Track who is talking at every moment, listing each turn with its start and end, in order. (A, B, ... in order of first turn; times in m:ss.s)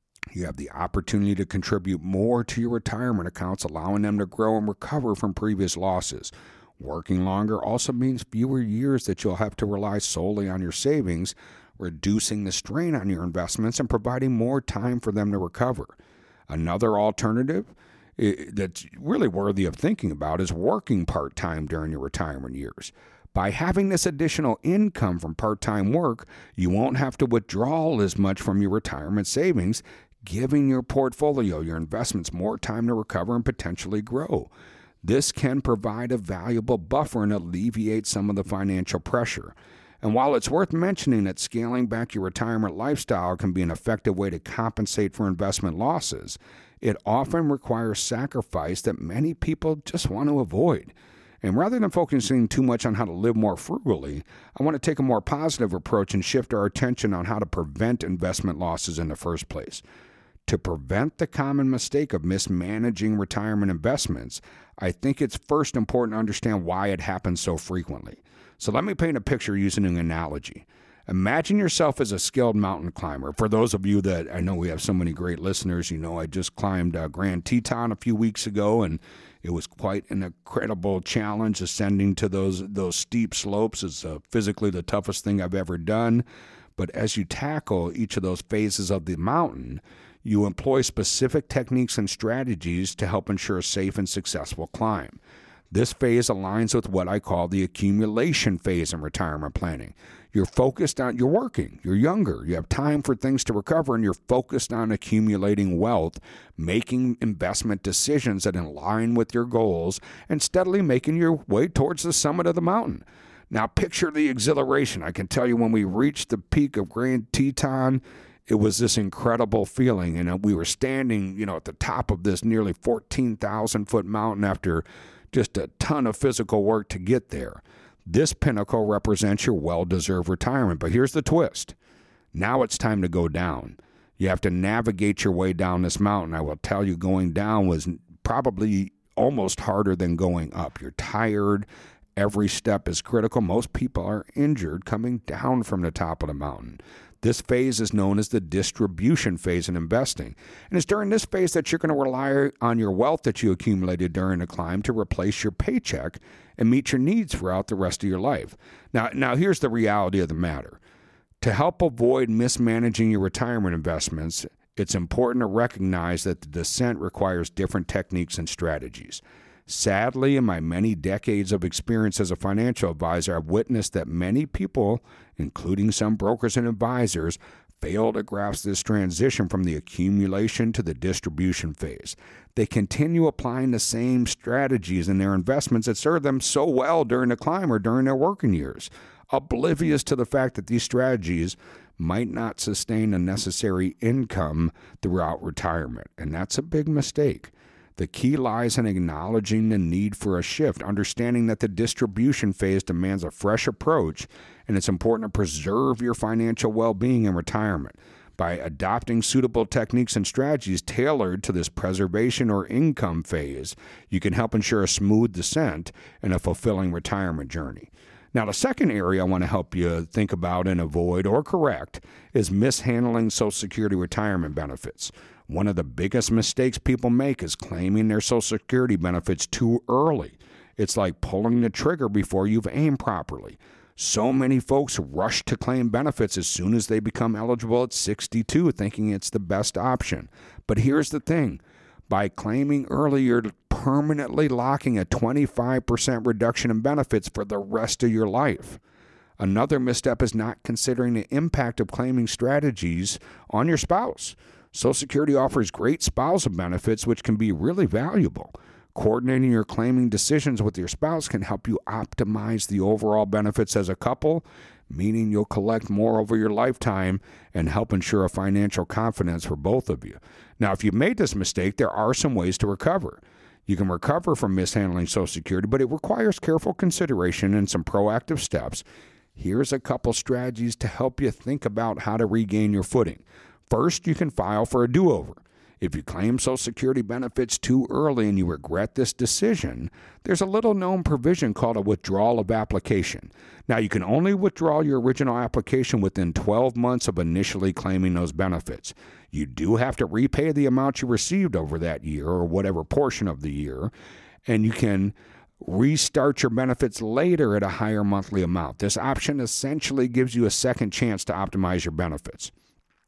0:00.3-0:16.0 A
0:16.5-0:34.5 A
0:35.0-0:59.8 A
1:00.5-1:26.2 A
1:26.8-1:35.2 A
1:35.7-2:11.8 A
2:12.3-2:40.8 A
2:41.4-4:08.8 A
4:09.4-4:38.8 A
4:39.4-5:03.9 A
5:04.4-5:12.5 A